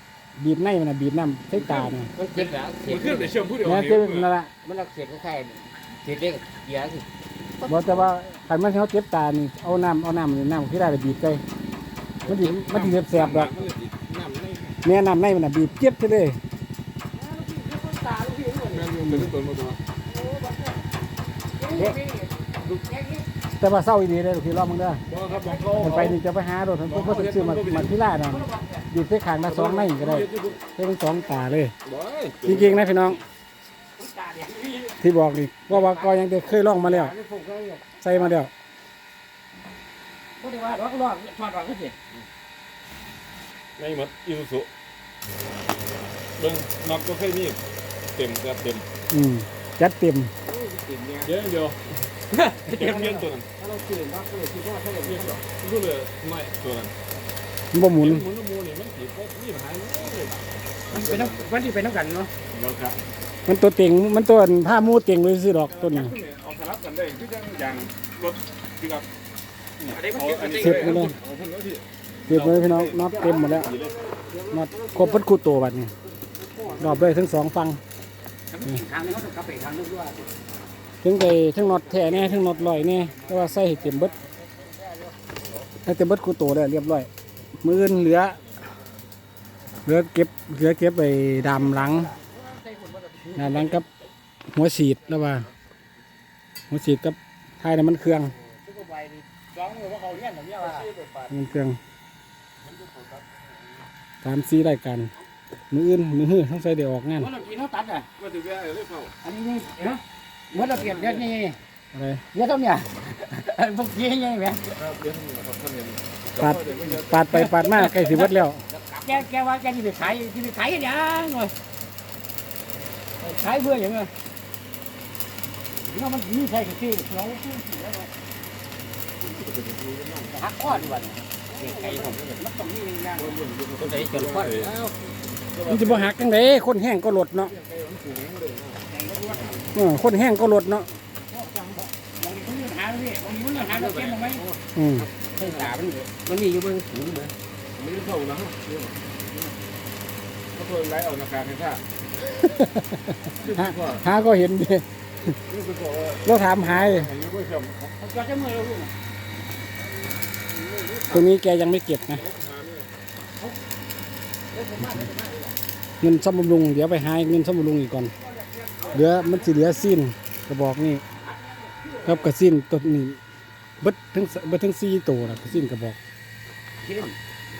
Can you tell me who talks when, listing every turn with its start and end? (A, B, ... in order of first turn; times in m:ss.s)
0:00.4-0:02.1 A
0:01.5-0:04.3 B
0:02.1-0:03.4 C
0:03.6-0:04.5 A
0:04.6-0:07.0 C
0:07.6-0:11.4 A
0:12.2-0:14.8 B
0:12.2-0:13.5 A
0:14.8-0:16.4 A
0:17.1-0:18.9 C
0:18.7-0:19.8 B
0:19.0-0:19.3 A
0:20.0-0:20.8 C
0:21.6-0:23.2 C
0:23.6-0:25.0 A
0:25.1-0:26.2 B
0:25.2-0:26.0 C
0:25.8-0:31.7 A
0:26.8-0:27.9 B
0:28.2-0:28.9 C
0:29.4-0:30.6 B
0:31.8-0:32.8 B
0:32.4-0:33.2 A
0:34.0-0:35.0 C
0:35.0-0:37.1 A
0:35.7-0:36.1 C
0:36.7-0:38.3 C
0:38.0-0:38.5 A
0:40.4-0:41.9 C
0:43.8-0:44.7 B
0:46.4-0:47.6 B
0:48.1-0:48.8 B
0:49.1-0:50.3 A
0:50.4-0:51.3 C
0:51.2-0:51.8 B
0:52.3-0:55.4 C
0:52.7-0:53.4 B
0:55.0-0:56.9 B
0:57.7-0:58.2 A
0:57.9-1:01.5 B
1:00.9-1:02.3 C
1:02.5-1:03.0 B
1:03.4-1:06.1 A
1:05.7-1:09.1 B
1:09.8-1:11.1 C
1:09.9-1:14.0 B
1:10.5-1:11.1 A
1:12.3-1:13.7 A
1:13.0-1:15.2 C
1:14.5-1:15.9 A
1:16.0-1:17.1 C
1:16.8-1:17.8 A
1:18.5-1:20.3 C
1:21.0-1:24.2 A
1:21.7-1:25.5 C
1:25.8-1:27.1 A
1:27.6-1:28.4 A
1:29.8-1:32.1 A
1:31.5-1:33.8 C
1:33.3-1:33.8 A
1:34.5-1:35.5 A
1:36.7-1:38.3 A
1:38.4-1:40.9 C
1:40.6-1:41.4 B
1:41.3-1:41.8 A
1:42.6-1:43.5 B
1:44.2-1:45.1 A
1:45.7-1:47.3 A
1:47.2-1:48.1 C
1:48.2-1:49.1 B
1:49.2-1:51.6 C
1:50.5-1:51.3 B
1:51.9-1:52.2 A
1:52.3-1:54.7 C
1:54.7-1:57.3 B
1:56.4-1:58.6 A
1:57.3-2:01.5 C
2:03.2-2:04.1 C
2:05.8-2:08.1 C
2:09.2-2:12.3 B
2:10.3-2:14.8 C
2:13.2-2:16.1 B
2:15.6-2:17.5 A
2:17.4-2:19.6 B
2:18.9-2:19.7 C
2:19.7-2:20.9 A
2:21.3-2:24.5 C
2:23.7-2:24.4 B
2:24.7-2:25.1 A
2:25.1-2:27.3 C
2:27.8-2:28.6 B
2:28.7-2:29.5 C
2:30.5-2:31.8 B
2:32.3-2:35.3 A
2:33.3-2:34.2 B
2:35.5-2:38.0 B
2:36.2-2:37.1 A
2:38.0-2:38.9 C
2:40.4-2:41.2 C
2:41.1-2:42.2 A
2:42.1-2:42.9 B
2:44.5-2:45.6 C
2:46.0-2:48.1 A
2:48.2-2:49.8 C
2:48.9-2:51.0 A
2:51.2-2:52.3 C
2:52.0-2:53.2 A
2:53.8-2:56.0 A
2:56.8-2:57.2 C